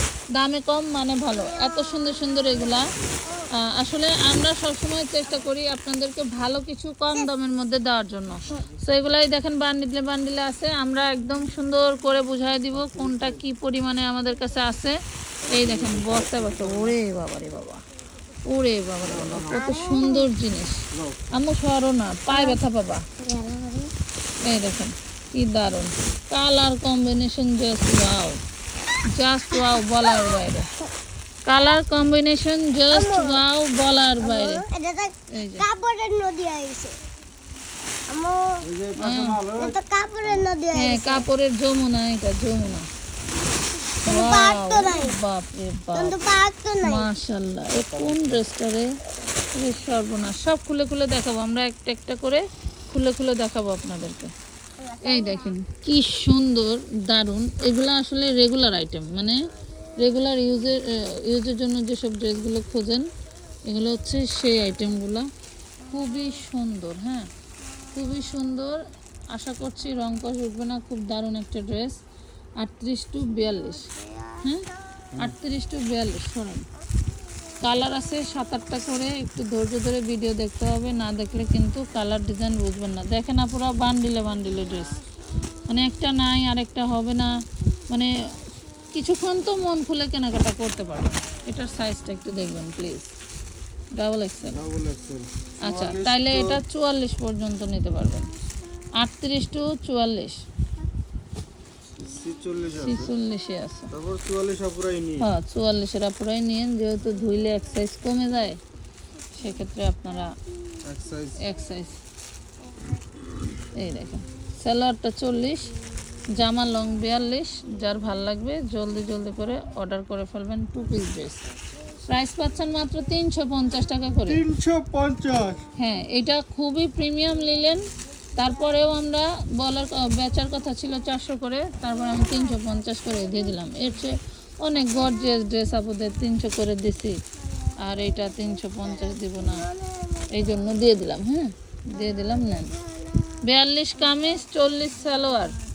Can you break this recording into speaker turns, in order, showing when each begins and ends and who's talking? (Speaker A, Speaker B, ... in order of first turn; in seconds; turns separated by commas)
Speaker A: 0.3-2.9, Speaker B: 1.3-3.5, Speaker A: 3.6-17.8, Speaker C: 12.8-13.4, Speaker C: 15.4-17.0, Speaker A: 18.4-23.1, Speaker C: 19.0-19.6, Speaker B: 19.5-20.3, Speaker C: 20.9-21.2, Speaker B: 22.3-22.6, Speaker B: 23.2-23.9, Speaker A: 24.4-28.4, Speaker A: 29.1-30.7, Speaker B: 29.5-30.4, Speaker A: 31.5-34.6, Speaker B: 32.9-33.5, Speaker B: 34.2-37.0, Speaker A: 35.3-35.6, Speaker B: 38.1-38.6, Speaker C: 38.6-40.5, Speaker A: 39.0-39.4, Speaker B: 39.6-41.3, Speaker A: 40.7-42.9, Speaker B: 43.9-45.2, Speaker A: 44.1-46.2, Speaker B: 45.9-47.1, Speaker A: 46.8-48.9, Speaker C: 47.8-48.4, Speaker A: 49.5-54.3, Speaker B: 54.8-55.5, Speaker A: 55.0-59.5, Speaker A: 60.0-63.1, Speaker A: 63.7-65.3, Speaker B: 65.8-66.4, Speaker A: 65.9-67.3, Speaker B: 67.8-68.3, Speaker A: 67.9-72.0, Speaker A: 72.6-73.9, Speaker B: 73.3-75.1, Speaker A: 75.2-76.7, Speaker A: 77.6-85.0, Speaker B: 84.4-85.6, Speaker A: 85.7-87.3, Speaker A: 88.9-93.1, Speaker A: 94.0-94.6, Speaker C: 94.5-96.6, Speaker A: 95.6-98.3, Speaker A: 99.0-100.4, Speaker C: 102.0-103.1, Speaker A: 102.8-103.9, Speaker C: 103.9-105.3, Speaker A: 105.2-108.6, Speaker B: 107.3-107.6, Speaker A: 109.3-110.3, Speaker C: 110.8-111.5, Speaker A: 111.4-112.0, Speaker B: 112.6-113.6, Speaker A: 113.7-115.7, Speaker A: 116.3-121.4, Speaker B: 121.6-123.0, Speaker A: 122.1-124.4, Speaker C: 124.3-125.6, Speaker A: 125.8-137.2, Speaker B: 128.3-129.0, Speaker B: 131.9-133.9, Speaker B: 137.4-141.0, Speaker A: 137.8-139.7, Speaker A: 140.3-142.7, Speaker B: 141.9-143.4, Speaker A: 143.4-145.6, Speaker B: 143.9-145.5